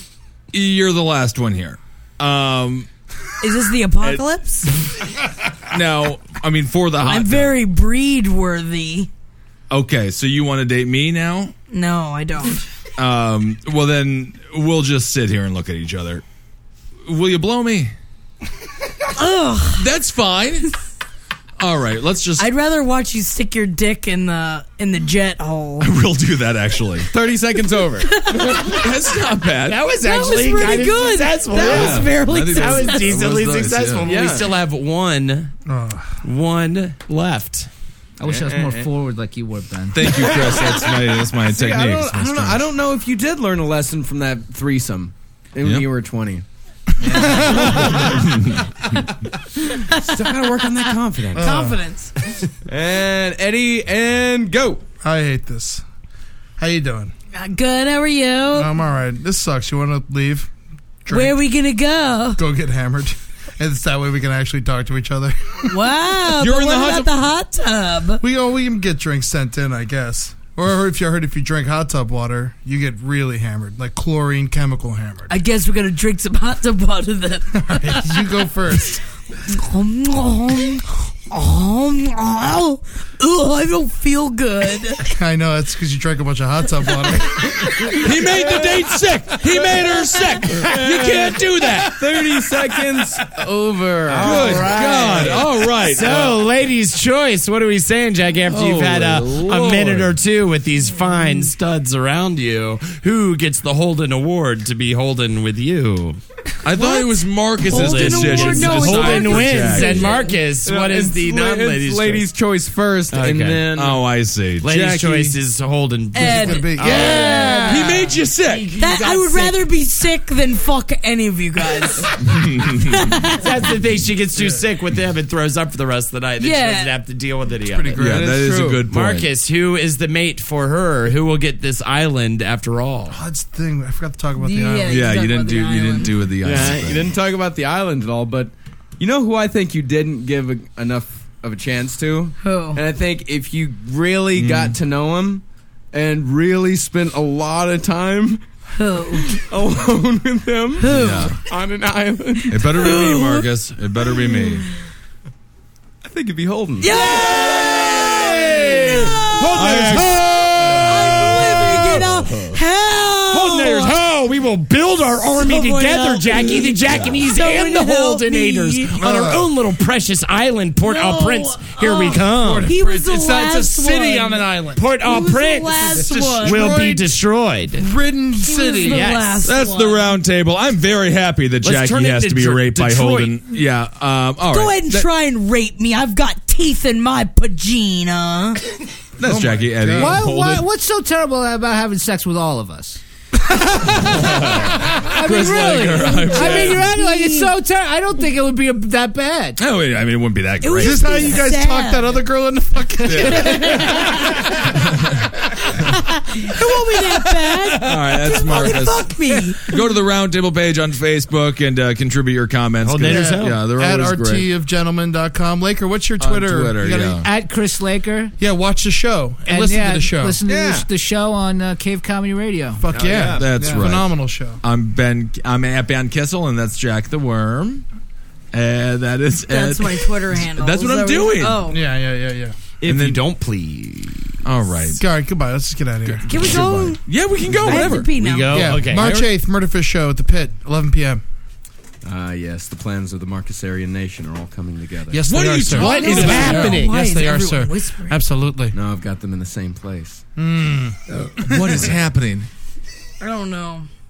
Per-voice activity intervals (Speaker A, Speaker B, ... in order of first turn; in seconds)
Speaker A: 0.5-2.9, 5.7-7.5, 9.7-11.5, 13.0-16.2, 17.1-17.9, 19.7-20.7, 21.6-22.4, 25.8-27.1, 28.6-29.8, 31.6-34.1, 39.9-42.6, 45.6-45.9, 47.8-49.0, 66.4-67.1, 87.8-93.3, 94.2-96.4, 98.5-100.2, 106.6-110.2, 113.7-115.4, 116.8-118.8, 122.1-123.2, 128.0-129.3, 134.9-137.1, 144.3-144.8, 150.8-151.4, 152.5-154.7, 159.5-160.2, 161.2-162.5, 166.8-167.2, 179.4-185.1, 189.2-190.7, 193.9-196.9, 199.6-201.3, 203.0-203.9, 204.7-205.3, 207.7-214.5, 216.2-217.3, 223.2-227.8, 228.5-231.7, 232.8-233.2, 234.4-235.0, 236.1-238.1, 245.3-246.8, 251.2-252.5
Speaker B: 3.4-4.7, 7.0-9.1, 11.7-12.7, 19.1-19.9, 22.4-25.9, 28.0-28.9, 30.0-33.1, 49.6-52.1, 57.3-58.7, 61.1-62.4, 65.7-68.2, 75.3-78.4, 79.5-85.2, 106.8-107.1, 107.6-110.4, 116.1-118.1, 118.8-122.1, 122.8-123.6, 126.4-126.9, 134.4-136.2, 142.4-142.8, 148.7-149.4, 150.8-151.4, 152.5-153.5, 154.1-154.7, 156.8-159.7, 160.6-163.9, 165.3-169.0, 170.8-176.9, 178.4-180.2, 184.5-188.6, 196.1-197.5, 200.6-202.2, 203.1-204.7, 205.7-209.7, 229.5-231.8, 236.3-238.8, 245.7-248.2, 253.2-253.9
Speaker C: 27.1-28.3, 34.0-34.5, 38.2-38.9, 40.1-46.4, 49.9-51.6, 52.7-54.8, 88.2-89.0, 90.5-95.3, 110.6-114.0, 128.0-128.8, 136.4-148.4, 149.2-152.7, 156.0-159.7, 220.4-220.9, 222.9-223.9, 237.5-238.0, 242.0-245.4, 248.7-250.2
Speaker D: 29.6-35.5, 36.2-37.7, 94.1-106.2, 107.6-112.3, 113.1-113.7, 114.6-119.5, 123.4-128.0, 128.8-133.2, 159.5-161.6, 163.3-172.7, 174.8-177.8, 178.8-179.4, 181.6-183.4, 212.8-213.6, 222.9-223.4, 232.8-234.7, 238.1-239.3, 245.9-246.9
Speaker E: 35.6-36.2, 47.1-48.3, 51.3-51.8, 55.0-55.8, 56.6-57.1, 58.5-60.5, 61.0-61.4, 62.4-65.8, 68.2-75.3, 77.5-79.0, 85.1-87.9, 116.1-117.5, 124.3-124.6, 127.7-128.3, 133.1-135.1, 169.0-169.5, 171.9-174.9, 175.9-177.1, 177.7-179.2, 189.2-190.2, 193.5-194.1, 200.8-204.6, 213.1-217.2, 218.4-220.4, 222.8-224.6, 231.7-232.6, 235.0-237.0, 238.5-241.2, 245.1-248.8, 250.4-251.9
Speaker F: 38.2-40.4, 47.0-47.9, 189.9-193.0, 194.9-199.6, 216.9-218.3, 219.4-222.8